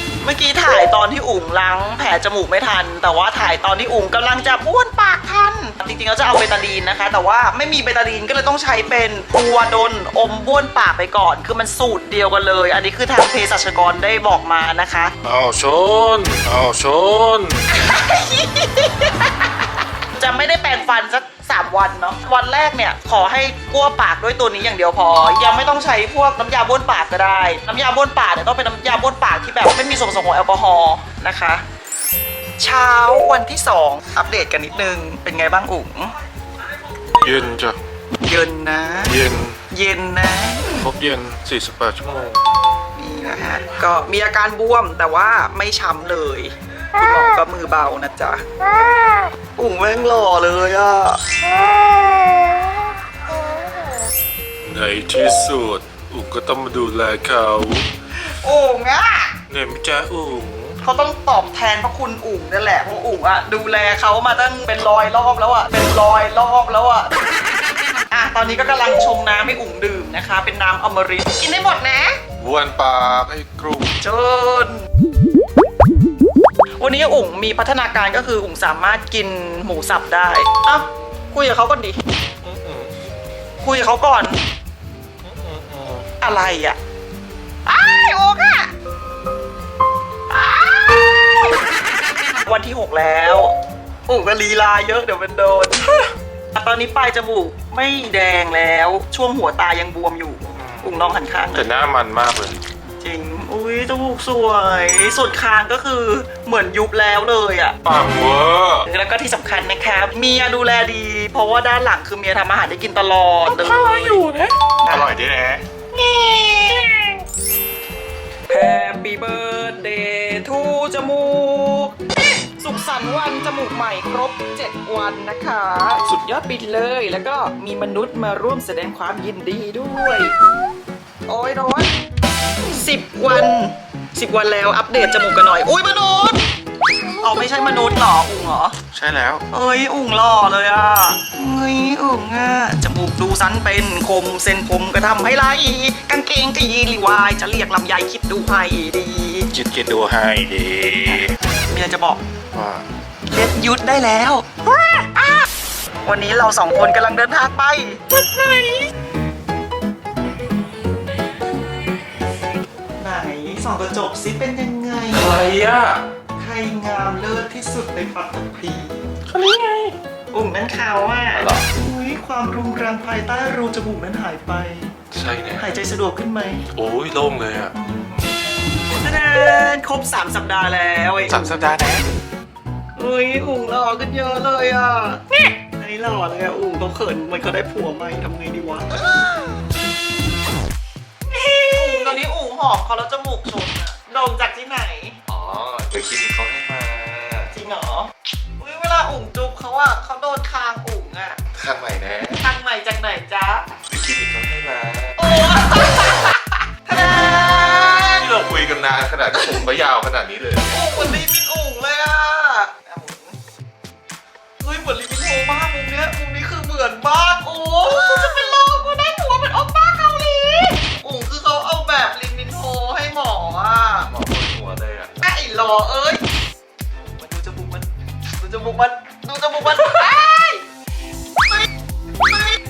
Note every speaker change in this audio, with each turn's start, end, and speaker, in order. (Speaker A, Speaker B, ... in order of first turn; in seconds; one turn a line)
Speaker A: 0.2-15.1
Speaker B: 15.2-17.6
Speaker A: 17.7-19.3
Speaker A: 20.1-31.6
Speaker A: 32.6-36.1
Speaker B: 37.1-37.8
Speaker A: 38.1-39.2
Speaker B: 39.1-39.6
Speaker A: 39.7-40.8
Speaker B: 40.7-42.4
Speaker A: 43.0-48.5
Speaker B: 48.9-49.1
Speaker A: 49.5-51.4
Speaker A: 52.2-52.7
Speaker A: 53.3-54.0
Speaker B: 54.6-57.9
Speaker A: 58.2-59.3
Speaker B: 59.5-60.8
Speaker A: 60.8-67.2
Speaker A: 68.1-72.2
Speaker B: 72.4-73.9
Speaker A: 74.0-74.8
Speaker A: 76.8-82.0
Speaker B: 82.4-82.9
Speaker A: 83.6-84.4
Speaker B: 85.2-86.0
Speaker A: 86.2-86.8
Speaker A: 87.7-88.7
Speaker A: 90.3-91.5
Speaker A: 92.4-93.5
Speaker A: 94.1-101.7
Speaker B: 100.6-100.9
Speaker B: 101.5-102.6
Speaker A: 103.0-107.8
Speaker B: 107.8-108.8
Speaker A: 108.8-114.2
Speaker B: 113.5-115.6
Speaker A: 114.8-115.1
Speaker A: 115.9-116.8
Speaker B: 116.8-117.1
Speaker A: 118.5-121.9
Speaker A: 122.6-130.3
Speaker A: 131.3-131.9
Speaker A: 132.7-136.4
Speaker A: 137.2-138.8
Speaker B: 138.9-139.4
Speaker A: 139.5-149.5
Speaker B: 149.5-151.2
Speaker A: 151.1-152.2
Speaker B: 152.5-152.8
Speaker A: 153.3-155.4
Speaker A: 156.0-158.9
Speaker A: 163.0-165.3
Speaker C: 165.1-166.0
Speaker A: 166.4-169.0
Speaker B: 169.3-169.9
Speaker A: 170.3-174.9
Speaker C: 171.3-171.6
Speaker C: 175.1-175.6
Speaker A: 175.6-176.6
Speaker C: 176.8-177.7
Speaker A: 177.7-181.7
Speaker C: 181.3-182.0
Speaker A: 182.9-189.2
Speaker A: 191.6-195.2
Speaker C: 195.3-197.5
Speaker A: 197.5-201.4
Speaker C: 201.6-202.4
Speaker A: 202.4-203.7
Speaker C: 203.9-205.2
Speaker A: 205.2-208.3
Speaker C: 208.1-210.9
Speaker A: 209.3-209.6
Speaker A: 210.7-213.3
Speaker A: 214.6-224.1
Speaker C: 224.1-225.2
Speaker A: 225.2-226.2
Speaker A: 227.0-230.6